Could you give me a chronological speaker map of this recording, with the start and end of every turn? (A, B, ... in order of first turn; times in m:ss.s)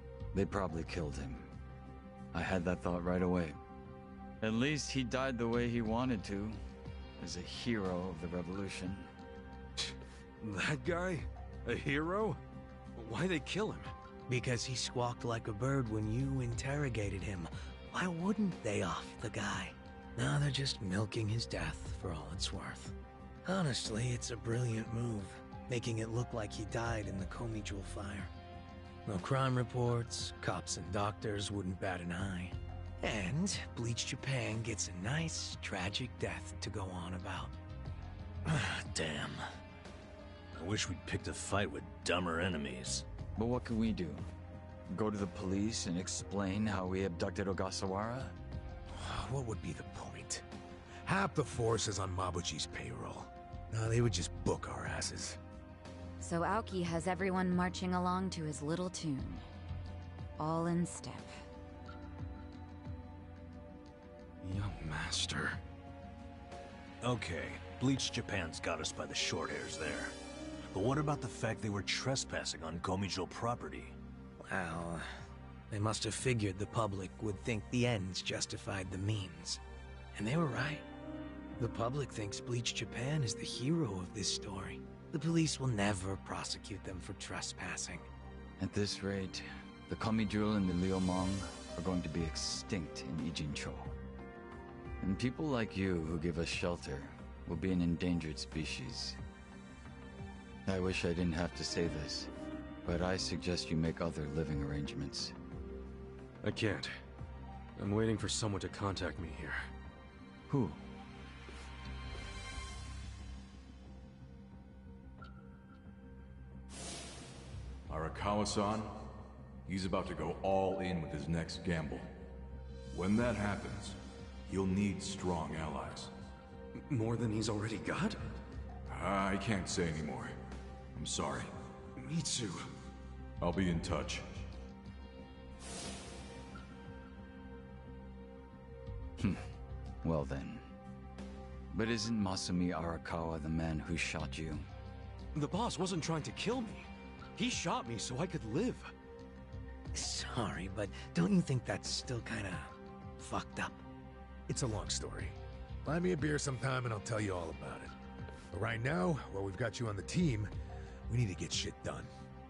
0:00.3-0:01.5 A
0:02.3-0:03.6 A
0:04.4-0:06.6 A
0:07.2-0:09.1 A
0:09.8-0:12.4 B
0:13.0-0:13.9 B
0:14.3-0:22.9 C
0:23.4-0:28.3 C
0:29.0-0:37.5 C
0:38.5-0:39.3 C
0:40.5-0:43.0 D
0:43.4-0:44.2 A
0:44.9-0:48.4 A
0:48.9-0:50.4 E
0:51.0-0:55.4 E
0:56.2-0:59.4 F
1:00.4-1:01.4 F
1:04.4-1:05.6 B
1:07.0-1:10.1 D
1:10.7-1:14.0 D
1:14.4-1:19.6 C
1:20.1-1:20.8 C
1:21.6-1:28.0 C
1:28.6-1:34.0 A
1:35.0-1:39.2 A
1:40.6-1:42.3 A
1:42.8-1:45.3 A
1:46.4-1:46.9 B
1:47.8-1:49.7 B
1:50.5-1:50.8 A
1:57.9-1:59.1 G
1:59.6-2:02.1 G
2:02.9-2:04.0 G
2:04.5-2:06.1 G
2:06.8-2:08.4 B
2:08.9-2:10.3 G
2:11.0-2:11.5 G
2:12.0-2:12.6 B
2:13.4-2:14.4 G
2:19.2-2:19.5 A
2:20.0-2:20.7 A
2:21.7-2:24.6 A
2:25.3-2:28.9 B
2:29.9-2:33.8 C
2:34.5-2:37.9 E
2:38.5-2:40.5 E
2:41.1-2:42.1 E